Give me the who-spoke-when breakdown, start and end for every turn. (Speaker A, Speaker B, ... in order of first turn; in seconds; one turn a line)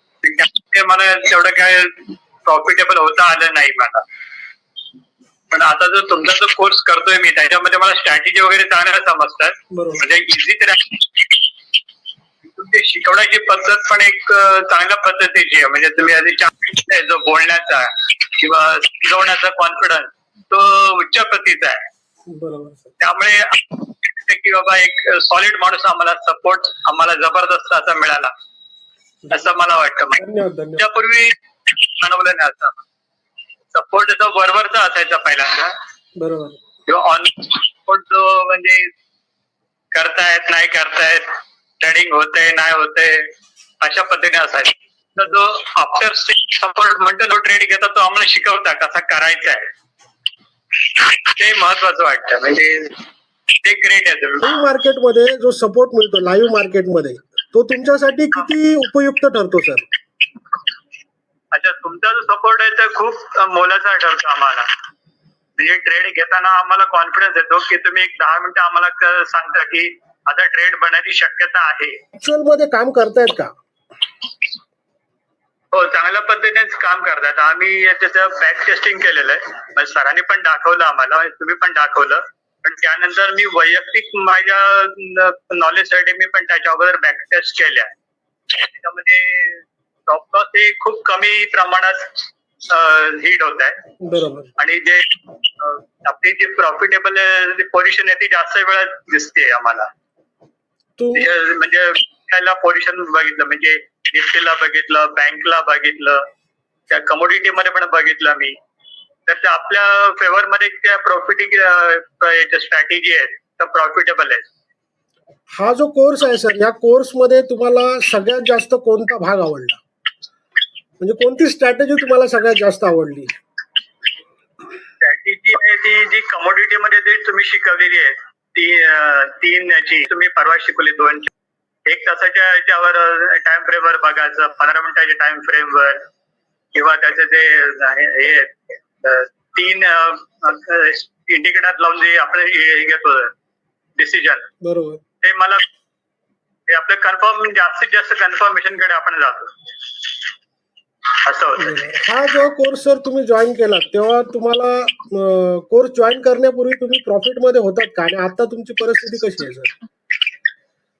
Speaker A: 0.2-4.0
Speaker A: 5.5-11.3
Speaker B: 9.7-10.0
Speaker A: 12.4-21.8
Speaker B: 22.3-22.9
Speaker A: 23.0-28.3
Speaker A: 29.3-30.2
Speaker B: 30.2-30.9
Speaker A: 30.8-31.4
Speaker A: 32.0-32.8
Speaker A: 33.7-35.7
Speaker B: 36.2-36.6
Speaker A: 36.9-38.9
Speaker A: 39.9-49.7
Speaker A: 50.9-53.0
Speaker A: 53.6-54.4
Speaker B: 54.4-59.9
Speaker A: 61.5-64.7
Speaker A: 65.6-72.0
Speaker B: 72.2-73.5
Speaker A: 75.7-87.9
Speaker A: 88.5-93.8
Speaker B: 94.0-94.5
Speaker A: 94.6-99.9
Speaker B: 101.0-101.3
Speaker A: 101.1-106.2
Speaker A: 106.9-108.6
Speaker A: 109.3-114.5
Speaker B: 115.5-119.8
Speaker B: 121.0-123.3
Speaker A: 125.0-131.3
Speaker A: 131.9-136.0
Speaker A: 136.7-143.3
Speaker A: 144.0-144.5
Speaker B: 144.6-145.0
Speaker A: 145.2-145.6
Speaker A: 146.7-149.5
Speaker A: 151.2-151.8
Speaker B: 151.6-159.7